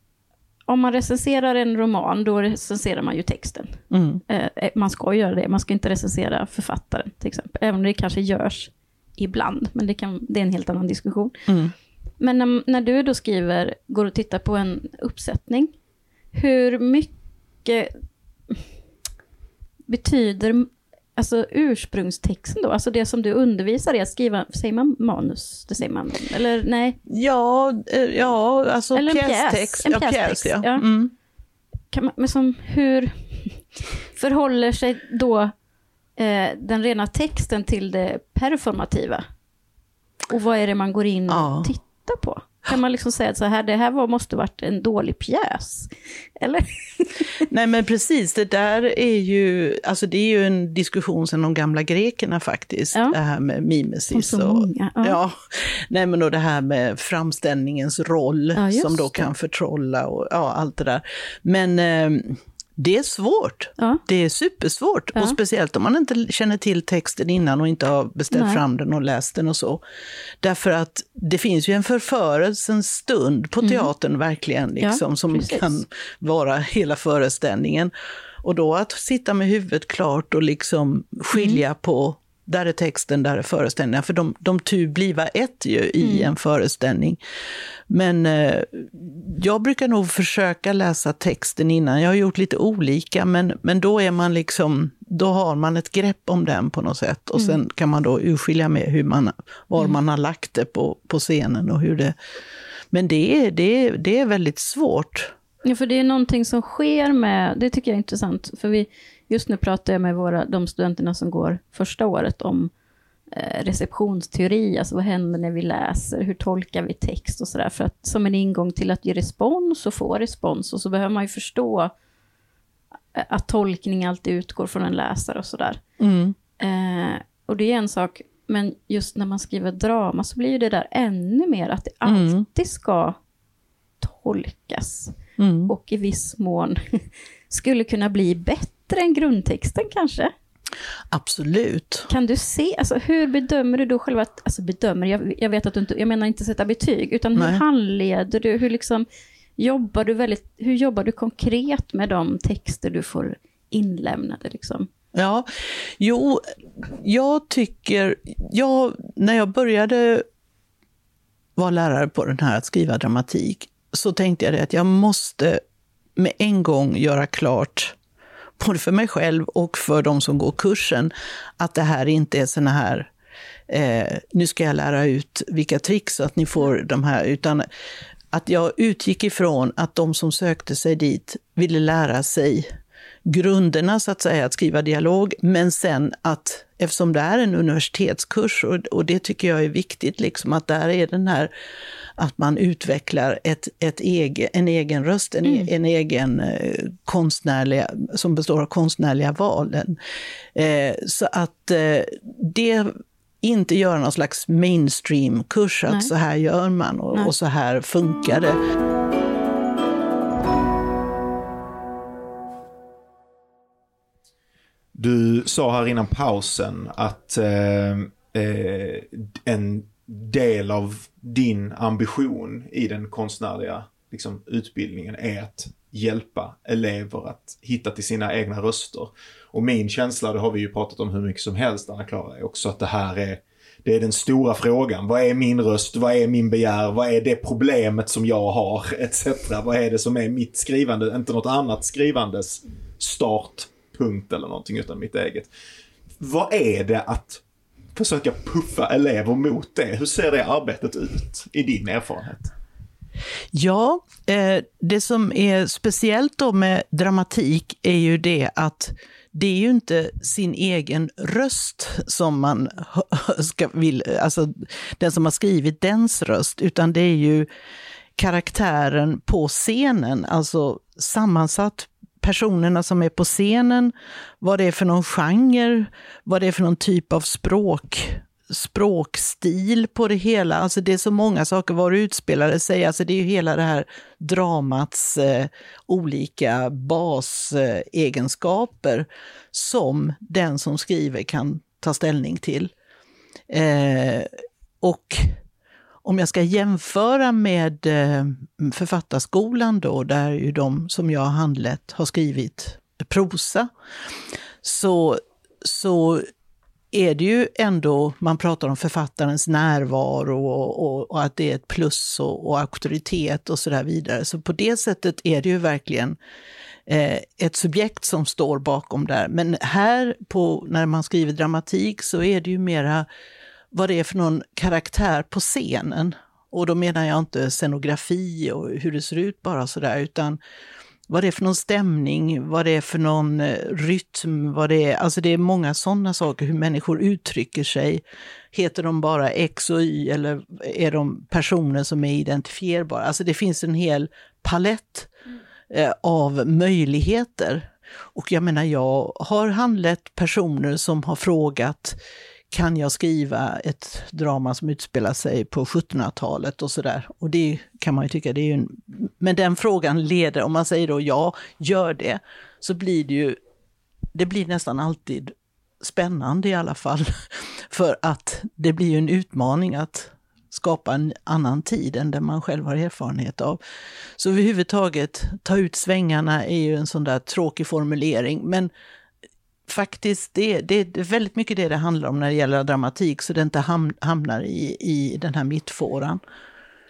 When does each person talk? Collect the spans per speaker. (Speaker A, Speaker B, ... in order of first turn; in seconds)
Speaker A: 0.7-11.4, 12.2-15.7, 16.3-17.1, 17.6-17.9, 19.9-27.0, 28.9-30.9, 31.9-35.5, 36.2-39.2, 40.3-47.4, 54.1-55.2, 58.5-59.3, 68.3-68.6, 73.6-73.9, 74.8-75.8, 81.3-81.6, 86.0-86.3, 105.6-112.7, 113.3-121.9, 123.1-125.8, 126.6-133.2, 134.0-135.2, 135.7-140.3, 142.1-149.1, 149.6-154.9, 195.4-195.7
Speaker B: 3.9-4.2, 11.5-11.7, 27.1-31.1, 41.3-41.7, 47.5-69.8, 70.4-77.9, 78.4-87.2, 87.9-102.2, 102.9-105.3, 126.0-126.4, 132.1-132.4, 135.4-135.7, 141.1-142.1, 147.4-147.6, 155.2-160.2, 161.6-165.6, 166.2-168.0, 168.6-173.1, 173.7-177.7, 178.3-182.7, 183.3-191.5, 192.2-200.0, 200.5-208.6, 253.5-267.5, 268.2-292.7, 293.5-294.3, 294.8-295.4, 296.0-303.7, 304.6-306.3, 306.9-316.2, 316.9-323.1, 323.7-330.4, 331.1-338.0, 338.5-345.1, 345.7-352.0, 352.5-363.4, 364.1-373.6, 374.2-378.7, 379.7-386.2
Speaker C: 214.9-245.5, 246.2-247.4, 247.9-252.5